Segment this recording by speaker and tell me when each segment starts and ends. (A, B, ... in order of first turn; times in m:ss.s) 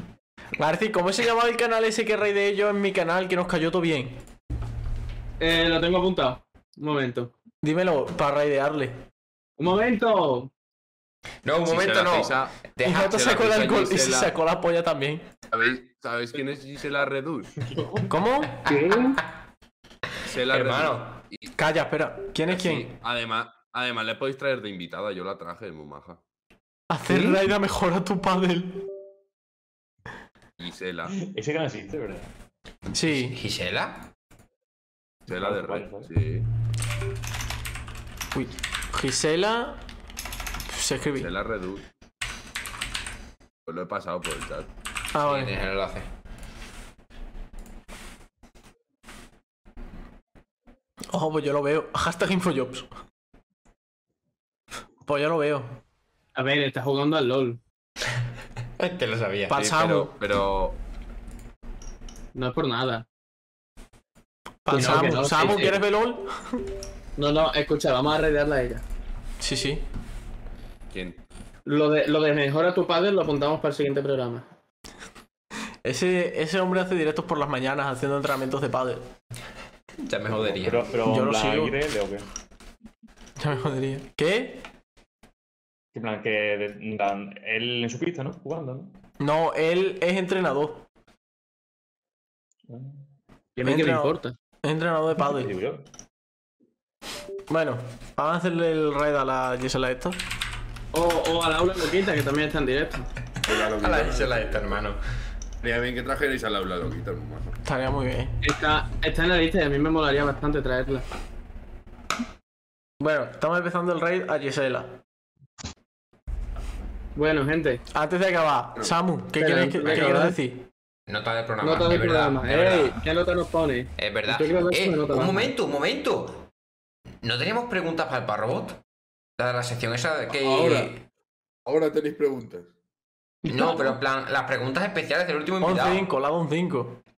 0:00.6-0:04.2 A
0:05.4-0:07.3 B
0:07.6-0:09.0 A
0:09.6-0:10.5 B
0:11.4-0:13.8 C
0:11.6-0:12.6 D
0:12.8-0:15.3 A
0:13.1-0:14.4 D
0:15.5-0:17.5 D
0:17.6-0:18.1 E
0:18.1-0:18.6 A
0:18.6-0:19.2 B
0:18.7-0:19.2 C
0:20.2-0:21.5 D
0:20.5-0:21.2 C
0:21.6-0:22.9 A
0:22.5-0:26.2 D
0:26.9-0:28.8 A
0:30.6-0:31.2 D
0:31.2-0:32.3 E
0:32.9-0:33.4 A
0:33.1-0:34.1 C
0:35.3-0:36.5 D
0:35.3-0:36.1 E
0:38.3-0:39.8 A
0:40.7-0:41.3 A
0:41.1-0:41.8 D
0:43.6-0:44.7 D
0:45.1-0:45.6 A
0:45.2-0:46.1 C
0:51.1-0:52.9 A
0:55.1-0:55.8 A
0:56.3-0:57.6 B
0:58.8-1:00.1 C
0:59.5-1:00.1 A
0:59.8-1:00.8 D
1:02.3-1:03.0 B
1:04.6-1:06.3 A
1:04.7-1:05.8 B
1:07.2-1:08.8 B
1:09.4-1:09.8 A
1:10.9-1:11.2 D
1:11.6-1:14.4 B
1:15.8-1:19.0 A
1:20.0-1:20.9 C
1:20.5-1:22.3 E
1:21.0-1:21.8 A
1:23.4-1:24.6 A
1:25.9-1:28.9 E
1:29.2-1:30.8 A
1:32.7-1:33.0 E
1:33.6-1:34.3 B
1:33.6-1:35.5 A
1:35.2-1:35.8 E
1:37.5-1:40.2 A
1:40.9-1:43.1 B
1:43.4-1:44.8 D
1:43.8-1:45.0 C
1:45.6-1:47.6 D
1:47.6-1:48.4 A
1:48.4-1:51.0 B
1:53.0-1:55.0 A
1:57.1-1:57.8 B
1:57.9-2:00.6 A
1:59.4-2:00.4 B
1:59.8-2:00.2 C
2:01.1-2:03.0 C
2:01.6-2:05.5 B
2:04.0-2:06.5 C
2:07.2-2:08.8 C
2:09.4-2:11.0 C
2:10.3-2:11.0 D
2:11.6-2:12.7 D
2:13.4-2:16.1 C
2:15.6-2:17.0 A